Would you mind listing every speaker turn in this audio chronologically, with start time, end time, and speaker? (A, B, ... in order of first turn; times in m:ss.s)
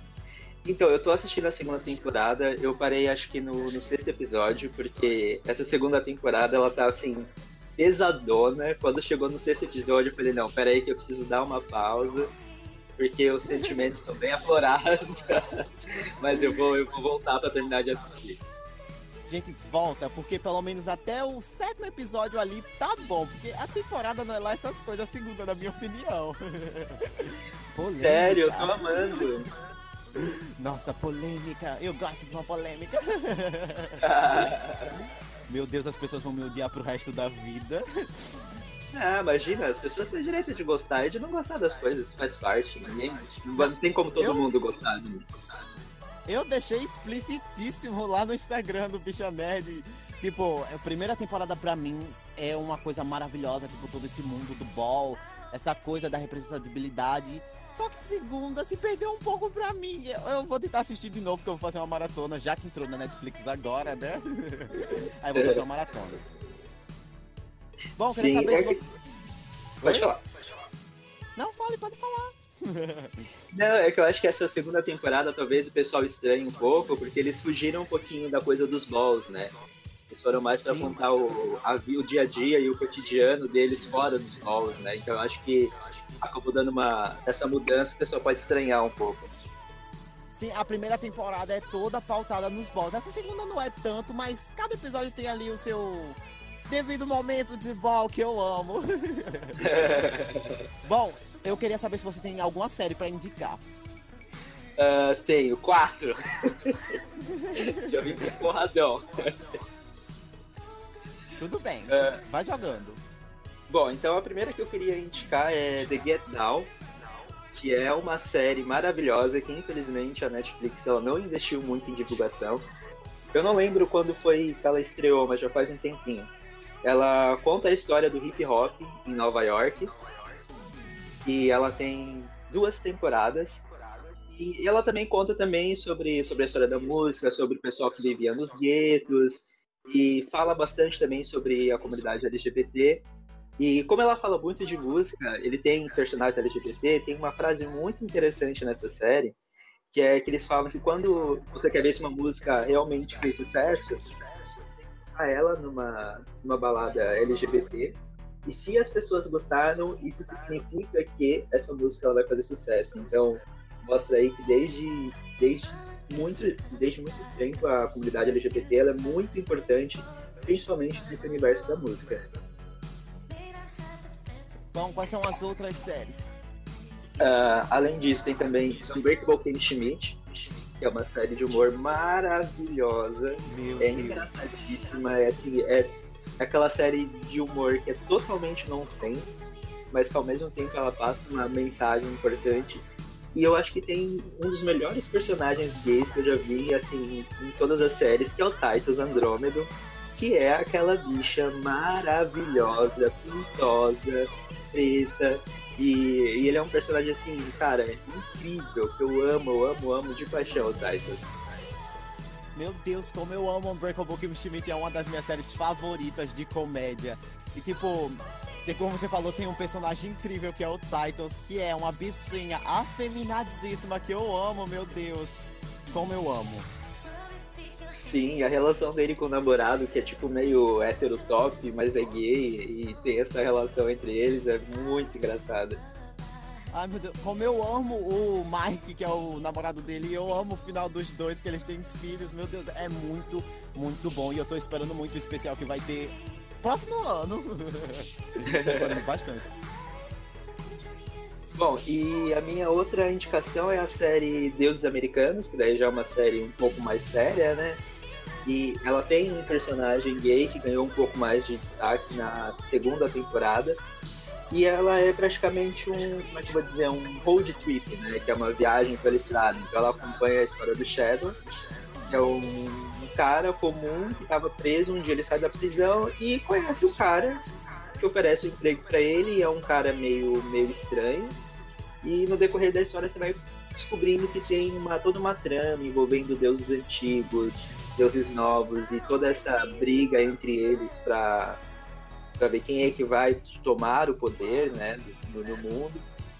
0:00.6-0:12.3 A
0:13.0-0:15.4 A
0:13.5-0:13.8 B
0:16.2-0:18.4 A
0:19.3-0:29.3 B
0:28.0-0:29.4 A
0:30.2-0:34.4 B
0:34.0-0:34.9 A
0:35.5-0:38.4 B
0:38.9-0:45.2 A
0:43.6-0:44.4 B
0:46.3-1:06.2 B
1:08.0-1:08.8 B
1:08.1-1:08.7 A
1:09.8-1:10.1 B
1:09.8-1:10.2 A
1:11.4-1:13.2 B
1:13.5-1:19.5 A
1:20.1-1:29.3 A
1:20.6-1:21.0 B
1:30.3-1:39.6 B
1:39.6-1:40.5 A
1:40.8-1:43.6 B
1:44.8-1:46.8 A
1:47.3-1:47.7 B
1:47.6-1:49.1 A
1:51.4-1:53.0 B
1:51.9-1:52.2 A
1:53.7-1:56.7 A
1:57.5-2:02.6 A
2:03.3-2:06.3 A
2:06.8-2:09.9 A
2:11.2-2:13.6 A
2:14.3-2:23.0 A
2:23.6-2:29.3 A
2:29.9-2:34.0 A
2:35.1-2:52.3 A
2:54.7-2:56.3 B
2:57.2-3:00.2 A
3:00.8-3:09.4 A
3:03.5-3:04.3 B
3:09.9-3:31.3 A
3:32.5-3:46.7 B
3:48.0-3:55.8 A
3:56.7-4:09.5 B
4:11.6-4:17.8 A
4:18.4-4:23.8 A
4:24.5-4:31.4 A
4:32.1-4:41.4 A
4:42.0-4:51.6 A
4:52.4-4:56.0 A